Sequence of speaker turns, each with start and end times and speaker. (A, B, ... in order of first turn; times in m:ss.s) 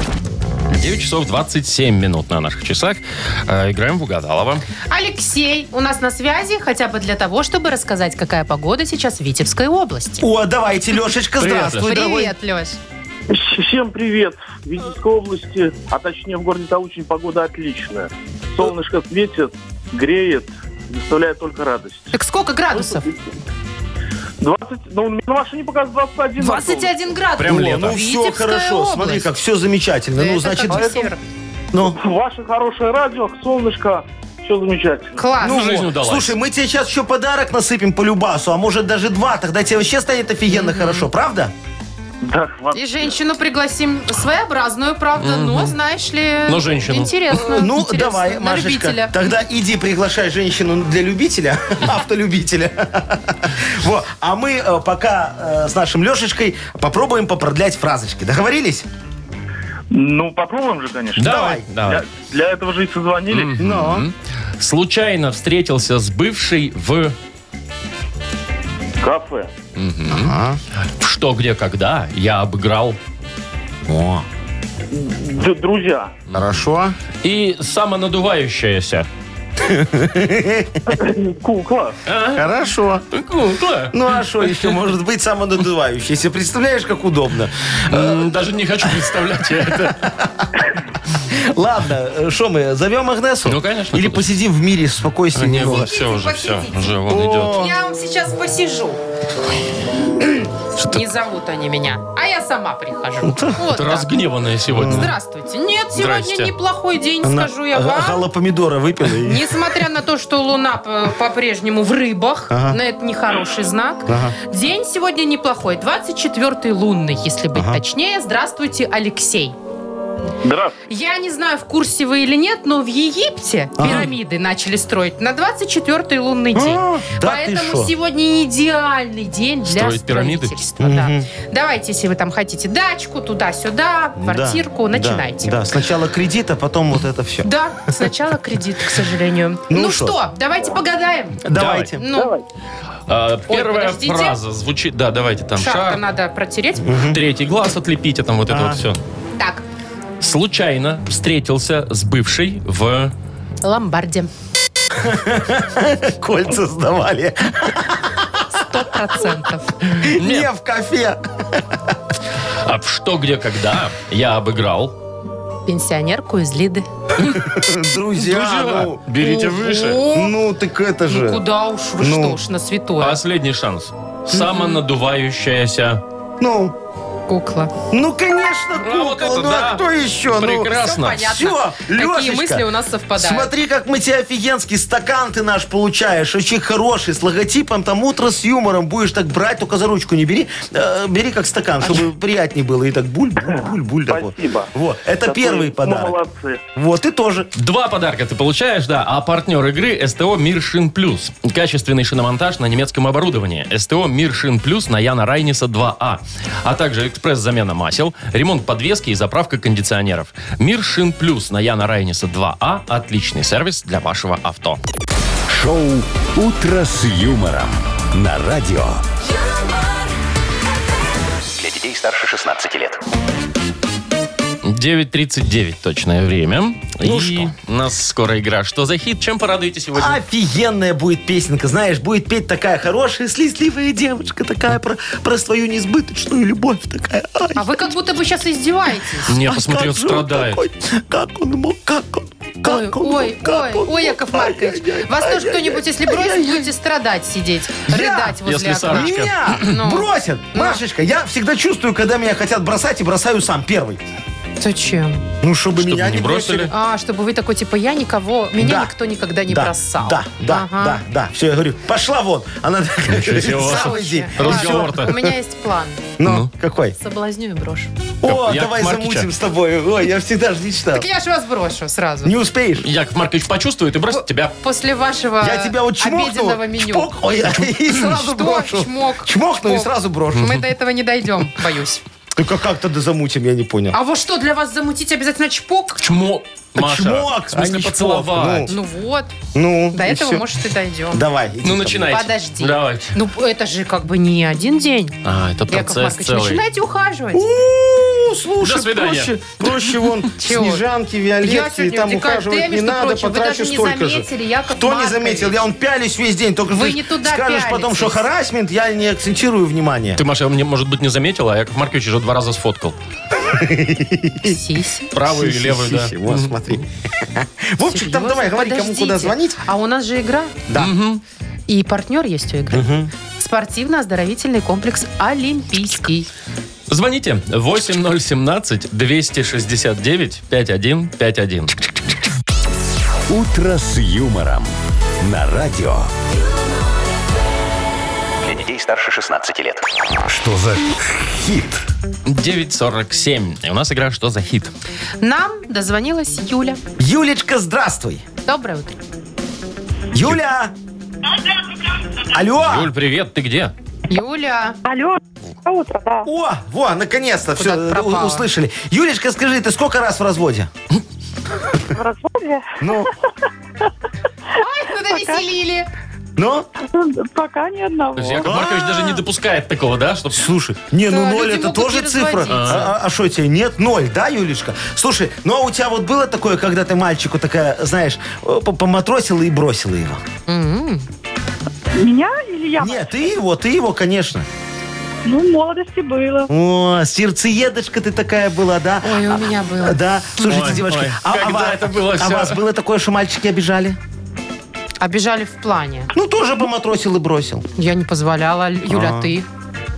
0:00.7-0:04.6 A
0:04.9-0:10.2 B
0:10.2-0:12.3 C
0:11.4-0:11.9 A
0:11.8-0:12.8 B
0:13.3-0:22.1 D
0:22.1-0:23.0 B
0:22.7-0:23.1 D
0:24.4-0:27.0 D
0:26.4-0:29.3 B
0:27.4-0:28.0 A
0:27.4-0:31.1 C
0:30.2-0:31.2 B
0:30.7-0:31.1 D
0:31.7-0:32.0 C
0:31.8-0:35.2 D
0:35.2-0:35.6 B
0:35.4-0:41.5 C
0:35.4-0:36.3 A
0:40.5-0:41.1 B
0:42.2-0:43.1 D
0:42.7-0:49.1 B
0:45.2-0:45.7 A
0:46.5-0:47.3 A
0:47.4-0:58.9 C
0:59.9-1:03.5 D
1:01.2-1:01.7 C
1:01.2-1:02.0 A
1:03.3-1:07.2 A
1:03.6-1:04.0 C
1:09.0-1:09.5 D
1:09.8-1:10.3 A
1:10.1-1:10.6 C
1:10.9-1:13.0 A
1:13.9-1:14.2 C
1:14.9-1:16.2 D
1:16.3-1:17.0 C
1:17.2-1:19.1 A
1:19.6-1:20.9 C
1:20.9-1:22.0 D
1:22.0-1:24.8 A
1:22.4-1:23.0 C
1:23.9-1:28.3 C
1:27.9-1:30.0 A
1:29.8-1:30.4 C
1:31.3-1:35.9 C
1:33.4-1:34.3 A
1:35.3-1:37.6 A
1:35.8-1:39.0 B
1:37.1-1:37.7 C
1:40.2-1:44.1 B
1:43.2-1:43.6 C
1:43.7-1:45.2 A
1:44.7-1:45.1 C
1:44.8-1:48.2 B
1:45.9-1:46.5 A
1:47.2-1:49.5 C
1:49.2-1:59.6 B
1:52.5-1:52.8 C
1:54.1-1:54.4 C
1:57.5-1:57.8 C
2:00.4-2:00.8 D
2:00.9-2:15.6 B
2:03.8-2:04.1 C
2:06.5-2:07.9 C
2:09.7-2:10.5 A
2:10.8-2:11.3 C
2:14.2-2:17.5 C
2:17.4-2:21.4 B
2:19.7-2:20.2 C
2:21.4-2:22.0 C
2:21.5-2:21.9 A
2:22.0-2:22.3 B
2:22.1-2:22.4 D
2:23.1-2:26.0 A
2:23.5-2:24.4 B
2:25.6-2:27.0 B
2:26.8-2:27.2 C
2:27.1-2:29.0 A
2:28.5-2:28.8 C
2:29.4-2:29.6 B
2:30.2-2:33.1 A
2:33.6-2:34.3 B
2:34.9-2:38.4 C
2:38.5-2:39.9 B
2:40.0-2:41.9 C
2:40.0-2:40.5 A
2:42.6-2:44.9 A
2:45.6-2:46.9 B
2:47.2-2:47.5 A
2:47.2-2:49.0 C
2:48.2-2:50.0 A
2:49.2-2:50.3 B
2:50.0-2:51.4 C
2:51.1-2:53.2 B
2:52.0-2:52.4 C
2:53.0-2:56.0 A
2:54.3-2:54.8 B
2:56.4-2:56.7 C
2:57.3-2:57.7 B
2:57.9-3:16.2 C
2:58.8-3:01.3 A
3:00.7-3:03.5 B
3:13.5-3:14.7 D
3:15.2-3:16.6 D
3:16.7-3:17.5 C
3:17.6-3:34.8 A
3:35.5-3:39.0 E
3:41.6-3:43.0 F
3:44.6-3:50.2 A
3:47.0-3:47.5 C
3:49.9-3:57.9 C
3:57.5-3:59.3 B
3:59.2-4:06.7 C
3:59.3-4:00.6 A
4:02.6-4:10.8 B
4:07.9-4:14.0 C
4:08.4-4:09.7 A
4:14.6-4:15.2 B
4:15.4-4:16.7 C
4:15.8-4:16.7 A
4:16.7-4:21.0 B
4:18.6-4:18.9 C
4:19.5-4:25.3 C
4:23.1-4:25.2 A
4:23.4-4:26.0 B
4:26.2-4:26.9 C
4:26.2-4:26.5 A
4:27.0-4:27.9 B
4:28.2-4:31.1 C
4:28.2-4:29.3 A
4:30.9-4:32.3 B
4:32.2-4:32.9 C
4:32.8-4:34.5 A
4:34.1-4:37.1 B
4:35.4-4:40.6 C
4:37.7-4:42.0 B
4:42.4-4:44.0 C
4:43.9-4:46.0 B
4:46.0-4:48.7 A
4:46.7-4:48.7 C
4:48.7-4:49.3 B
4:49.5-4:50.5 C
4:49.9-4:51.2 B
4:51.1-4:52.2 C
4:51.6-4:53.1 A
4:52.1-4:55.2 B
4:55.2-4:56.6 A
4:55.7-4:57.4 B
4:57.3-5:10.2 C
4:58.6-5:00.1 A
5:00.4-5:00.8 B
5:01.4-5:05.6 B
5:06.7-5:08.2 B
5:10.1-5:13.0 A
5:13.4-5:14.6 C
5:14.4-5:15.1 B
5:15.1-5:16.6 A
5:15.2-5:19.6 C
5:17.8-5:20.6 B
5:20.7-5:20.9 C
5:20.7-5:21.2 A
5:21.7-5:26.3 B
5:22.7-5:23.1 C
5:26.9-5:31.8 A
5:33.3-5:36.1 E
5:38.4-5:39.8 F
5:40.2-5:41.8 E
5:42.2-5:44.7 A
5:45.2-5:46.8 B
5:47.0-5:48.2 C
5:48.4-5:49.0 B
5:50.1-5:50.7 C
5:52.3-5:52.9 C
5:52.6-5:53.7 A
5:54.1-5:54.8 B
5:54.8-5:56.3 G
5:56.2-6:00.7 C
5:57.6-5:58.5 B
6:01.8-6:03.1 G
6:02.8-6:03.1 C
6:04.6-6:05.9 B
6:04.9-6:05.5 G
6:06.4-6:06.7 C
6:06.8-6:08.6 G
6:08.2-6:10.5 A
6:08.4-6:09.2 C
6:10.3-6:20.2 C
6:11.0-6:12.8 B
6:12.5-6:12.9 A
6:20.5-6:21.0 B
6:22.0-6:23.3 G
6:22.8-6:24.5 C
6:25.2-6:26.5 G
6:26.5-6:34.0 C
6:29.0-6:30.0 B
6:30.4-6:32.6 A
6:35.0-6:36.1 B
6:36.1-6:37.6 C
6:37.8-6:39.5 B
6:38.9-6:39.3 C